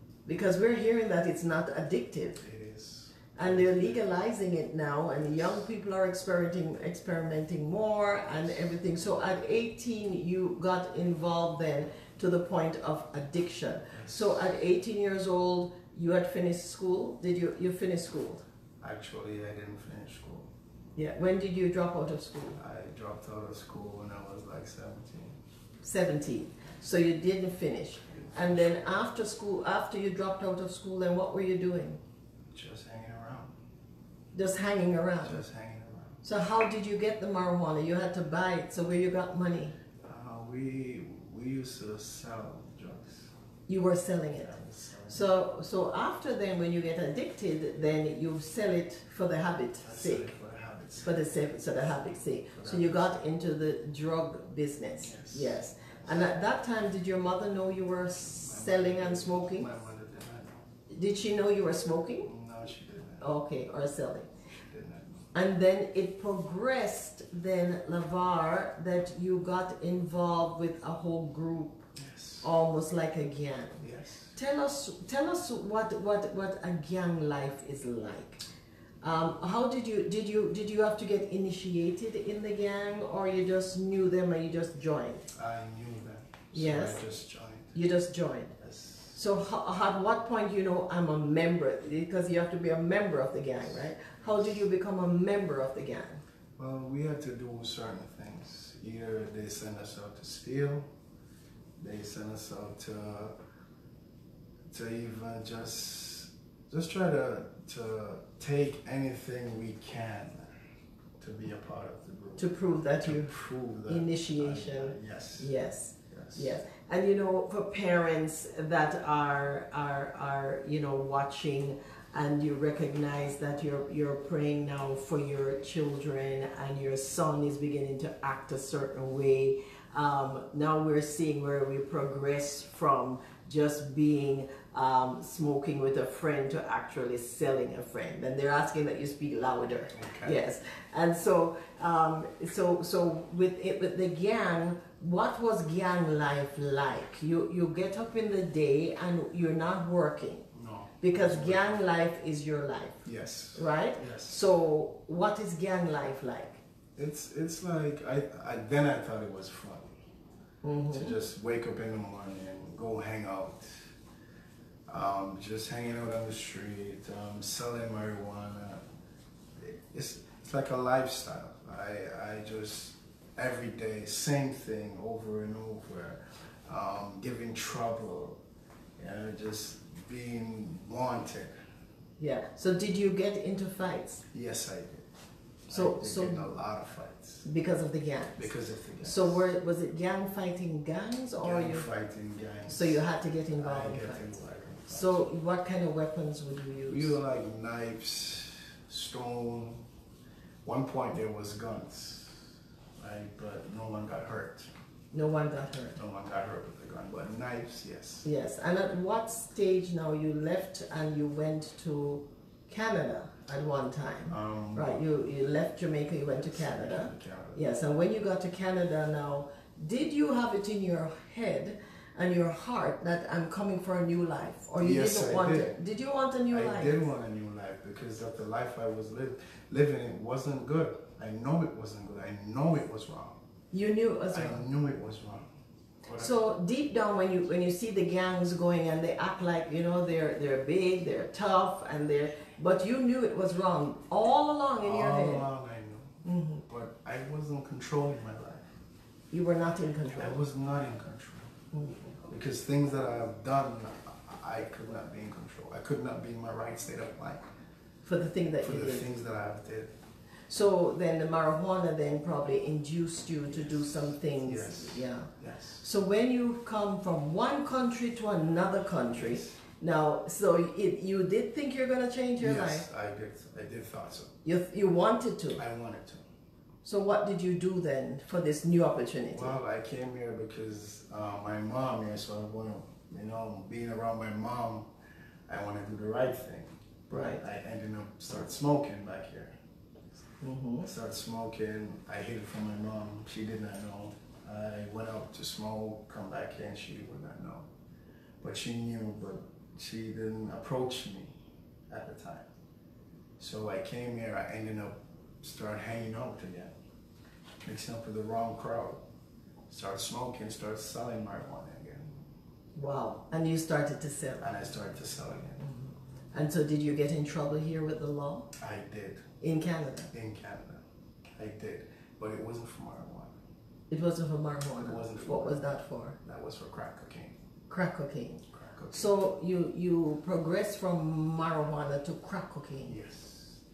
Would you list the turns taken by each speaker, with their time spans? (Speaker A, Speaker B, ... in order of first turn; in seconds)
Speaker A: 0.3-2.4, 3.4-18.4, 21.0-22.6, 25.8-32.0, 34.3-35.4, 36.2-39.8, 43.7-44.5, 45.1-50.3, 51.0-59.7, 60.9-62.3, 63.2-64.3, 65.3-71.9, 72.4-78.4, 79.0-85.3, 86.5-87.0, 87.7-88.6, 89.2-96.2, 112.4-150.5, 151.0-156.6, 160.6-161.1, 182.2-184.2, 185.7-186.5, 187.4-191.9, 192.7-197.2, 205.1-206.0, 208.2-227.1, 233.7-234.7, 236.2-245.5, 246.2-246.7, 249.3-250.4, 251.7-252.1, 258.1-259.1, 260.5-272.9, 274.4-275.6, 276.8-279.6, 287.1-287.4, 290.4-290.9, 312.8-314.4, 315.6-318.5, 319.4-320.1, 323.9-326.2, 327.7-333.0
Speaker B: 2.4-4.1, 5.1-5.7, 8.3-8.8, 13.9-14.4, 18.8-20.5, 22.6-25.4, 28.1-29.0, 32.5-33.5, 35.2-36.3, 40.0-43.3, 44.4-45.3, 49.8-53.3, 55.0-56.3, 58.4-60.7, 62.2-63.3, 64.7-65.3, 72.0-72.5, 73.8-74.4, 85.3-87.8, 88.6-89.2, 93.6-94.7, 96.6-100.9, 101.8-103.3, 104.7-110.5, 111.2-112.5, 113.0-115.5, 116.1-116.5, 139.9-140.4, 150.5-151.8, 153.1-154.4, 157.0-160.0, 160.9-163.9, 164.9-168.8, 169.6-178.4, 179.0-181.5, 184.3-185.1, 185.7-187.4, 188.4-189.4, 191.4-193.0, 193.6-195.3, 196.9-199.8, 200.6-204.7, 205.9-208.3, 214.3-215.0, 216.4-217.7, 224.8-225.8, 226.5-233.4, 234.3-235.5, 236.0-236.3, 244.8-248.7, 250.2-251.5, 252.2-257.4, 258.6-259.9, 264.4-265.8, 269.1-269.6, 272.4-274.3, 275.6-276.2, 279.3-284.9, 285.5-289.6, 290.8-297.7, 298.4-301.4, 301.9-302.5, 303.4-306.7, 307.6-309.0, 309.7-312.2, 314.4-315.6, 318.6-319.3, 320.1-323.4, 324.8-327.4, 328.5-329.2, 332.9-333.6